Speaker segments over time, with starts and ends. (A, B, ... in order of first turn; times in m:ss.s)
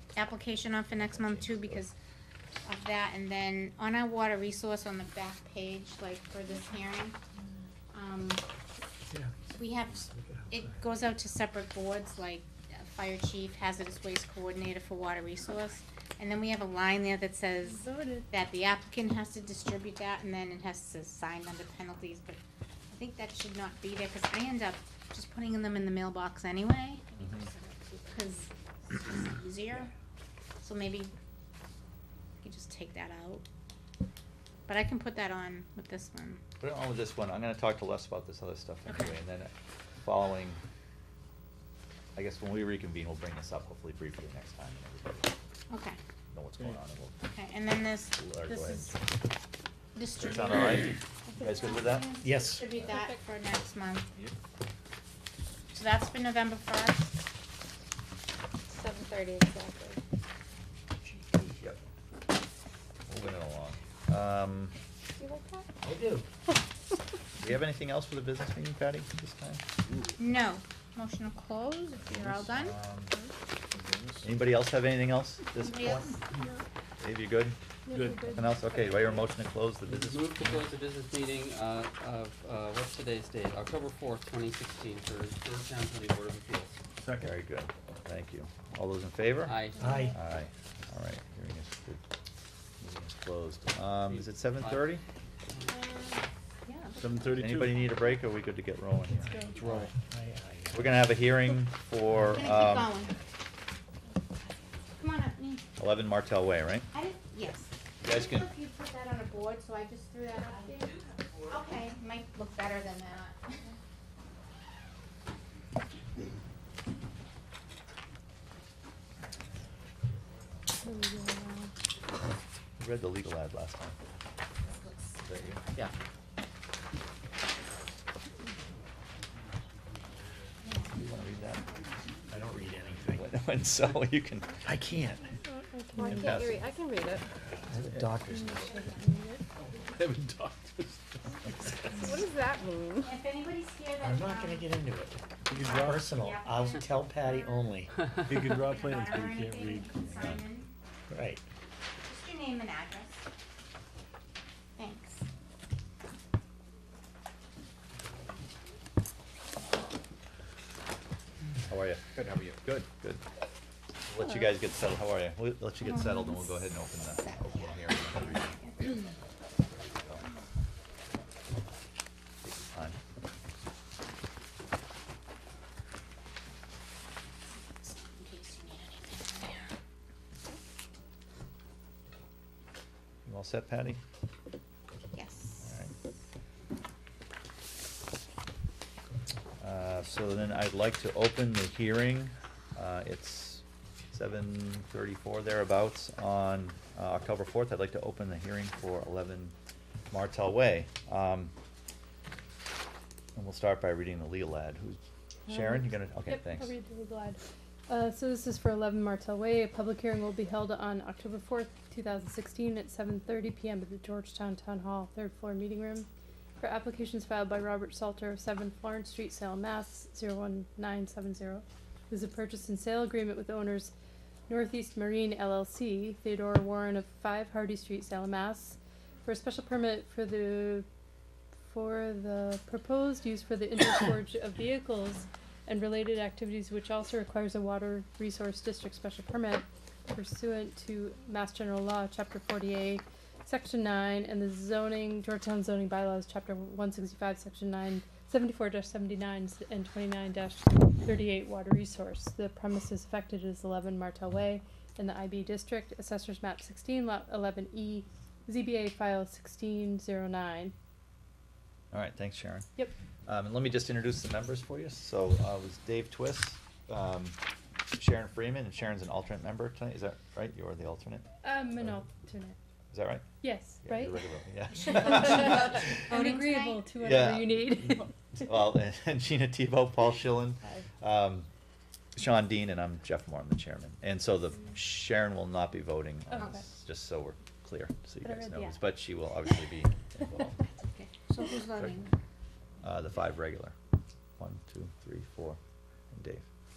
0:00.2-0:01.9 A
0:01.0-0:01.8 B
0:02.6-0:07.2 A
0:07.9-0:08.4 A
0:09.1-0:09.6 C
0:09.6-0:22.4 A
0:10.1-0:10.5 C
0:17.8-0:18.2 D
0:22.9-0:27.0 A
0:27.2-0:27.5 B
0:27.5-0:28.0 E
0:28.1-0:29.9 A
0:30.6-0:31.1 A
0:32.4-0:33.4 A
0:34.7-0:36.4 A
0:36.6-0:39.5 B
0:38.9-0:39.2 A
0:40.0-0:40.6 B
0:42.2-0:45.3 B
0:45.7-0:46.0 A
0:46.3-0:47.2 B
0:47.2-0:49.0 A
0:48.2-0:49.0 B
0:50.0-0:54.1 A
0:50.2-0:52.1 B
0:52.2-0:52.7 C
0:55.7-0:57.1 A
0:58.7-1:00.0 E
1:03.1-1:04.8 B
1:05.2-1:05.6 E
1:05.8-1:06.3 C
1:07.4-1:09.6 B
1:10.2-1:12.8 A
1:12.0-1:13.1 B
1:13.8-1:14.2 F
1:14.2-1:16.2 B
1:15.7-1:16.2 A
1:17.0-1:17.6 B
1:17.9-1:19.0 D
1:18.0-1:18.4 F
1:18.3-1:20.5 B
1:19.9-1:20.7 E
1:20.1-1:26.8 G
1:21.4-1:22.0 E
1:27.2-1:29.6 B
1:29.8-1:30.2 C
1:30.1-1:32.0 B
1:32.8-1:35.0 B
1:35.7-1:36.2 A
1:36.7-1:37.0 D
1:37.0-1:37.9 F
1:37.4-1:39.4 B
1:39.2-1:39.7 D
1:39.6-1:41.1 C
1:40.7-1:42.9 B
1:42.3-1:43.1 A
1:45.0-1:45.6 A
1:45.8-1:46.9 B
1:46.9-1:53.6 A
1:48.0-1:48.5 B
1:50.7-1:50.9 E
2:00.8-2:01.7 D
2:02.8-2:04.0 B
2:04.7-2:05.2 A
2:05.2-2:05.9 B
2:10.6-2:10.9 A
2:11.0-2:11.7 B
2:11.6-2:12.1 F
2:12.3-2:13.2 C
2:13.1-2:14.6 B
2:14.6-2:15.3 C
2:15.4-2:16.2 D
2:16.0-2:16.7 B
2:16.1-2:17.2 E
2:17.7-2:18.6 C
2:18.3-2:19.4 D
2:19.8-2:21.2 F
2:22.0-2:23.1 E
2:23.0-2:24.7 A
2:24.0-2:27.9 C
2:25.5-2:26.0 F
2:25.6-2:27.6 A
2:28.2-2:30.4 F
2:28.4-2:30.7 A
2:31.1-2:31.4 C
2:32.0-2:33.2 A
2:34.8-2:35.2 A
2:41.7-2:43.2 B
2:44.1-2:48.6 B
2:45.9-2:46.5 A
2:47.2-2:48.8 A
2:49.7-2:50.2 B
2:52.4-2:53.0 B
2:57.6-2:59.6 A
3:03.2-3:04.0 B
3:05.1-3:05.6 A
3:05.6-3:05.9 B
3:09.6-3:19.5 B
3:20.1-3:21.5 B
3:23.4-3:26.7 B
3:25.5-3:36.1 D
3:36.6-3:43.9 D
3:44.5-3:50.9 D
3:51.7-4:20.7 D
4:21.9-4:22.7 B
4:23.3-4:27.4 B
4:27.9-4:31.2 B
4:31.4-4:32.6 D
4:32.9-4:33.3 B
4:33.4-4:34.2 D
4:33.8-4:36.0 B
4:34.8-4:35.2 D
4:35.2-4:36.8 A
4:36.0-4:38.5 D
4:37.0-4:37.6 B
4:38.4-4:41.5 B
4:42.2-4:50.6 B
4:48.2-4:48.8 D
4:50.8-4:51.7 A
4:52.8-4:53.8 B
4:54.4-4:55.6 B
4:56.1-4:56.5 B